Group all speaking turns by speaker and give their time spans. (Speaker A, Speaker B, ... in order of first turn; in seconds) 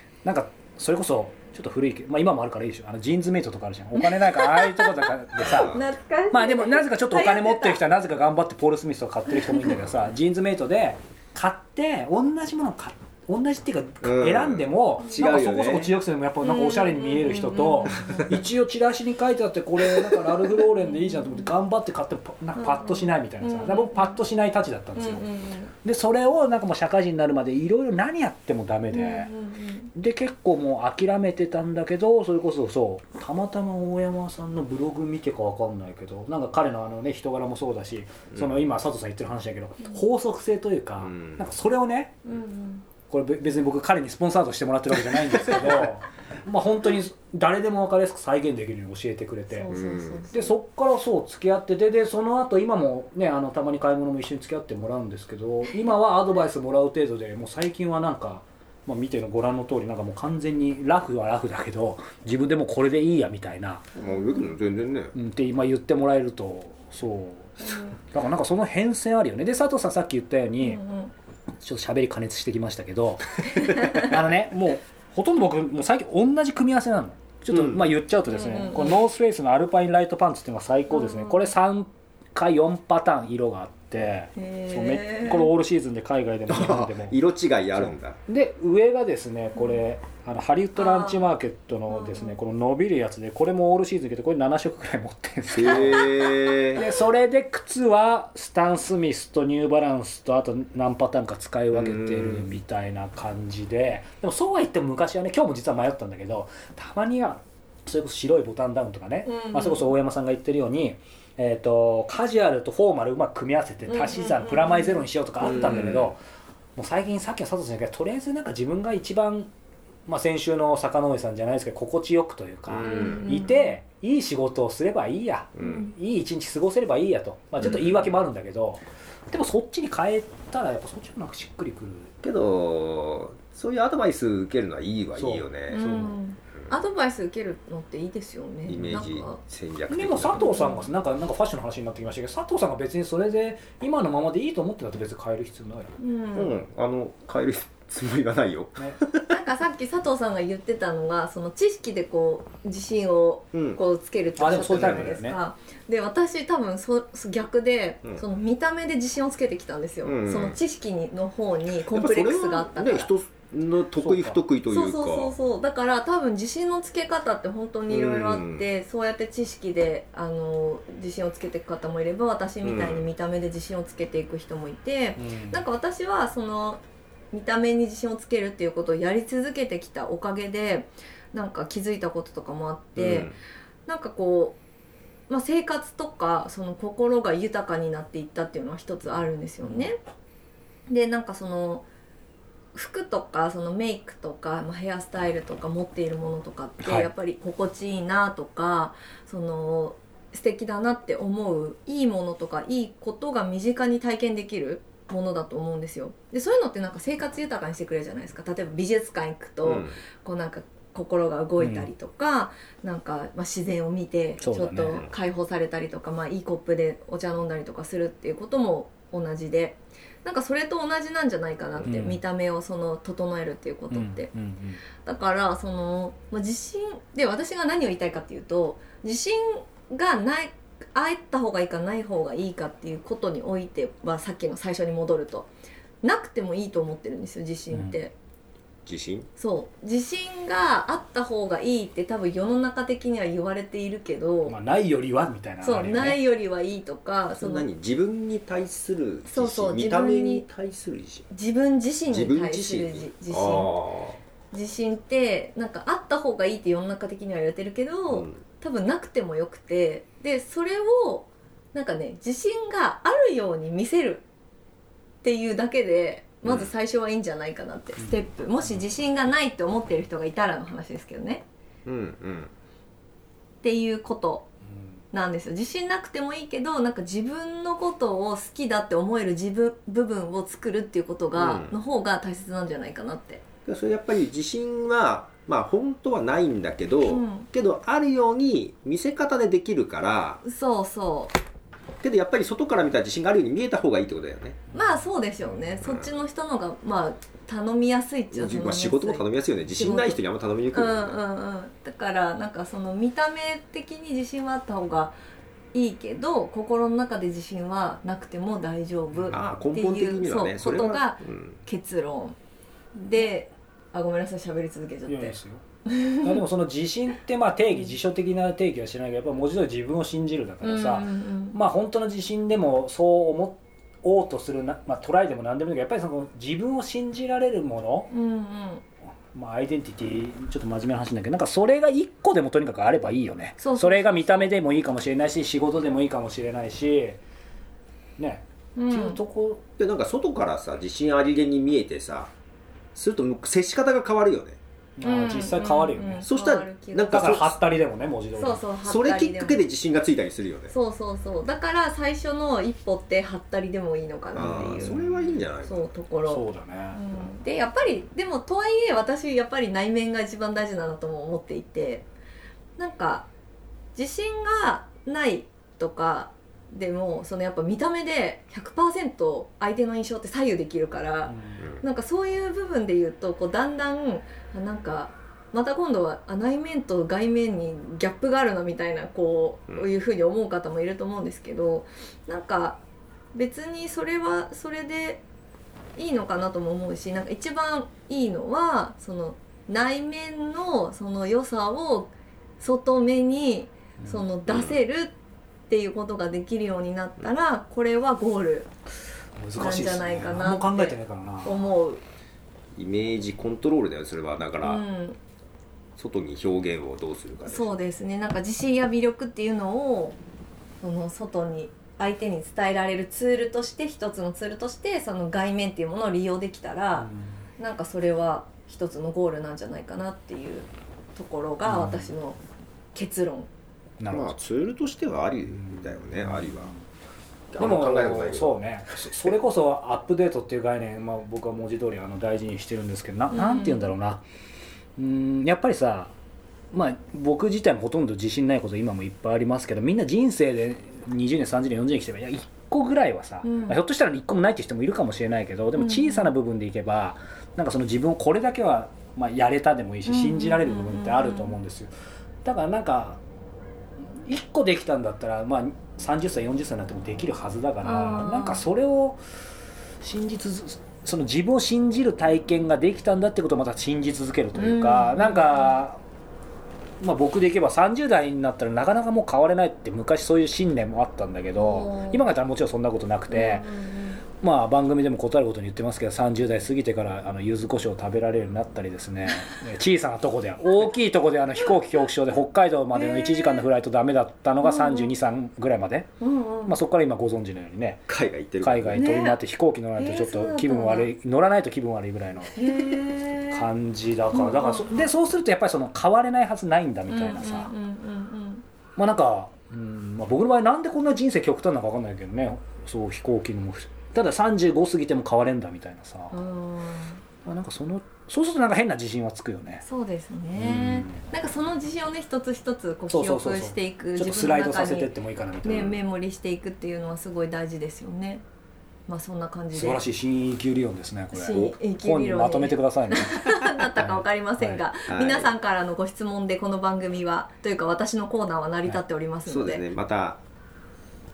Speaker A: 0.2-5.8, 6.3-25.2, 25.8-29.3, 29.9-42.2, 43.1-49.8, 50.3-63.9, 65.1-70.8, 71.6-87.2, 87.8-96.1, 96.7-116.2, 116.8-119.5, 120.1-132.1, 135.2-136.2, 139.9-146.0, 154.4-155.4, 164.0-164.4, 175.2-175.6, 196.8-197.1, 211.6-211.9, 214.4-215.0, 221.8-222.2, 223.9-224.8, 237.7-238.0, 244.5-246.2, 268.0-268.8, 294.7-295.8, 315.1-315.6, 316.2-328.1, 329.3-337.2, 338.2-339.6, 345.0-346.3, 347.1-348.6, 354.4-355.1, 356.3-357.0, 371.2-371.6, 394.0-394.2, 399.4-401.7, 417.0-417.4, 421.6-422.1, 424.0-424.3, 425.5-426.8, 427.6-434.2, 435.0-436.1, 436.7-451.9, 452.4-453.2, 454.1-459.2, 460.0-466.0, 467.0-473.7, 474.4-486.1, 486.7-488.1, 488.6-492.6, 493.5-497.7, 499.0-506.4, 507.4-509.8, 510.5-511.2, 513.1-516.0, 519.7-524.8
Speaker B: 4.1-7.8, 16.4-18.4, 20.6-21.5, 22.6-24.2, 25.0-25.7, 28.9-29.9, 42.2-42.9, 49.5-50.5, 64.0-64.5, 67.6-68.0, 70.6-71.1, 73.5-74.1, 78.3-79.0, 80.9-81.5, 84.4-85.5, 89.5-89.8, 90.8-91.2, 91.9-92.4, 109.2-109.8, 113.9-115.1, 122.8-123.7, 125.6-125.9, 135.7-139.4, 140.4-140.9, 146.0-146.6, 149.3-163.1, 164.7-176.8, 177.3-183.3, 183.9-184.6, 185.3-190.0, 190.9-191.8, 192.7-224.3, 225.0-235.5, 236.0-238.1, 239.4-244.5, 245.6-247.7, 249.2-250.5, 251.3-253.7, 254.5-264.2, 265.2-271.4, 273.6-274.5, 275.1-283.4, 287.0-287.5, 290.4-291.4, 294.7-299.2, 299.8-300.2, 300.7-305.2, 305.7-312.4, 312.9-316.4, 320.6-321.6, 328.1-328.8, 333.6-334.6, 338.8-339.2, 345.0-347.3, 348.4-349.7, 350.7-355.0, 355.6-362.1, 362.8-363.3, 363.9-382.8, 383.3-385.2, 386.0-395.1, 395.7-398.7, 399.6-402.0, 404.6-405.2, 407.4-410.2, 410.8-422.4, 422.9-423.5, 433.3-433.9, 443.4-443.8, 445.8-446.3, 450.0-451.6, 457.8-458.7, 464.6-465.8, 471.6-472.3, 473.3-474.2, 482.9-483.6, 484.6-485.1, 486.2-486.8, 488.9-489.4, 490.0-491.1, 492.6-493.7, 494.3-495.0, 497.1-498.6, 506.3-507.2, 509.8-518.4, 519.1-520.0, 521.3-529.8
Speaker C: 5.5-5.8, 14.0-15.9, 41.0-41.4, 49.7-50.3, 64.0-65.1, 77.5-77.8, 86.5-88.2, 95.5-96.8, 101.7-102.5, 115.4-116.1, 122.7-123.3, 125.6-125.9, 132.2-135.9, 138.7-140.5, 146.3-149.3, 153.5-153.8, 160.0-160.6, 161.9-165.3, 167.9-168.7, 172.6-173.1, 183.0-183.3, 209.7-210.0, 238.8-239.3, 247.3-251.3, 252.1-254.2, 258.1-258.4, 266.4-266.7, 271.8-272.5, 281.3-281.8, 283.7-290.4, 292.0-294.6, 295.8-296.1, 298.3-301.2, 309.3-311.6, 339.8-342.3, 342.9-344.6, 346.2-347.6, 348.8-350.7, 354.4-355.9, 371.6-371.8, 394.5-394.8, 402.8-404.8, 406.0-407.8, 424.1-426.7, 427.5-428.6, 488.1-489.1, 525.1-525.5, 529.5-530.4